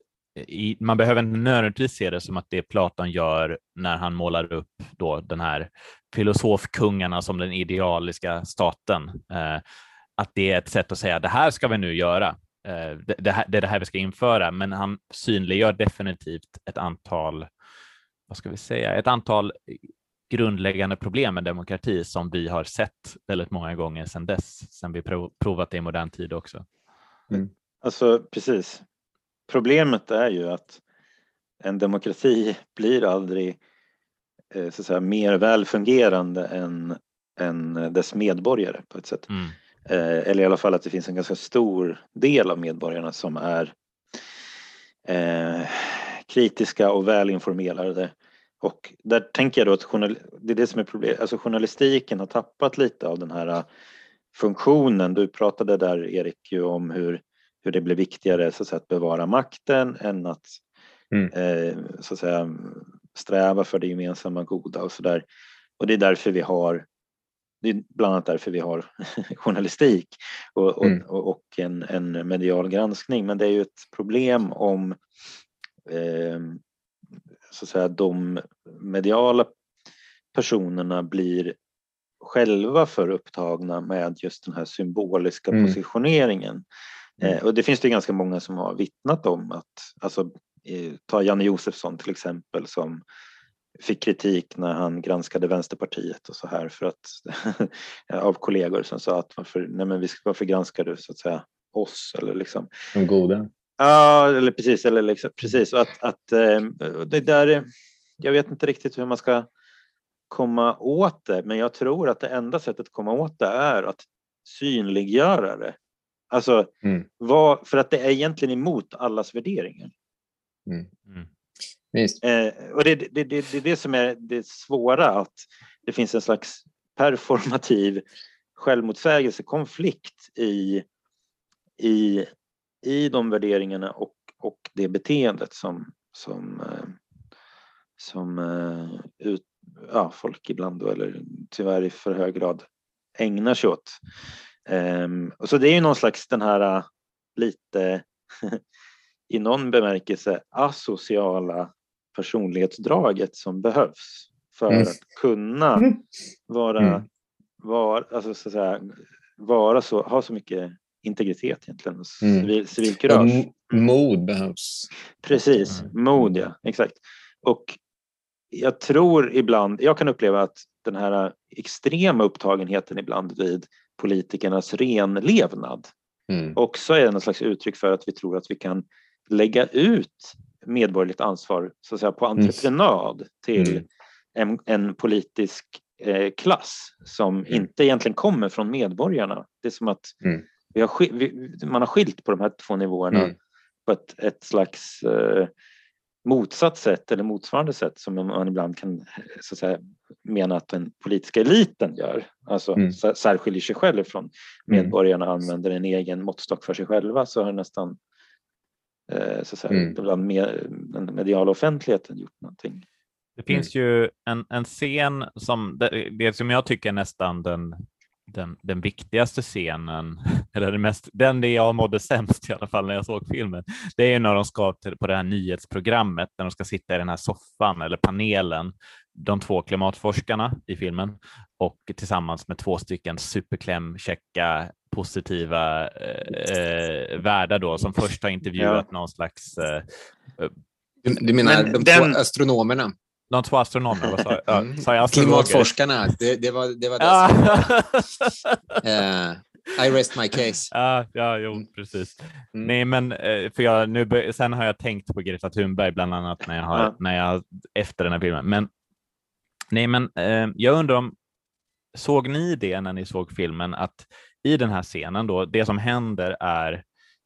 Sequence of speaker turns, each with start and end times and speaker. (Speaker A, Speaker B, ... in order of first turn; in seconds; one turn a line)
Speaker A: 0.4-9.6
Speaker A: 10.2-17.5
Speaker A: 18.3-26.6
Speaker B: 27.8-28.8
Speaker B: 29.5-30.8
Speaker B: 31.6-33.6
Speaker B: 34.5-39.3
Speaker A: 39.3-39.6
Speaker B: 39.9-43.7
Speaker B: 45.1-53.7
Speaker B: 54.3-60.6
Speaker B: 61.3-65.2
Speaker B: 65.8-66.8
Speaker B: 67.6-75.0
Speaker B: 75.9-76.6
Speaker B: 77.5-79.5
Speaker B: 80.3-81.6
Speaker B: 82.2-86.6
Speaker C: 85.5-85.8
Speaker B: 87.2-93.0
Speaker B: 93.8-102.7
Speaker C: 103.0-103.5
Speaker B: 103.8-107.7
Speaker B: 108.2-109.5
Speaker B: 110.3-115.8
Speaker B: 116.3-119.9
Speaker C: 121.9-122.2
Speaker B: 122.2-128.0
Speaker B: 128.6-130.8
Speaker B: 131.8-132.3
Speaker B: 132.8-137.0
Speaker B: 138.0-142.7
Speaker B: 143.2-144.0
Speaker B: 144.7-148.6
Speaker B: 149.3-155.9
Speaker B: 156.5-157.1
Speaker B: 157.6-163.6
Speaker C: 162.2-162.5
Speaker C: 163.1-165.8
Speaker B: 165.2-167.8
Speaker B: 168.5-175.9
Speaker C: 176.3-176.6
Speaker B: 176.6-190.2
Speaker C: 183.6-183.8
Speaker B: 190.7-193.3
Speaker B: 193.9-195.5
Speaker B: 196.2-208.0
Speaker B: 209.1-212.8
Speaker C: 209.7-210.0
Speaker A: 213.4-240.5
Speaker B: 238.6-238.8
Speaker C: 241.0-242.9
Speaker B: 241.4-242.2
Speaker A: 243.3-245.7
Speaker C: 244.5-247.7
Speaker A: 247.0-248.8
Speaker C: 248.8-250.7
Speaker A: 250.7-258.7
Speaker A: 259.7-261.1
Speaker A: 261.9-266.8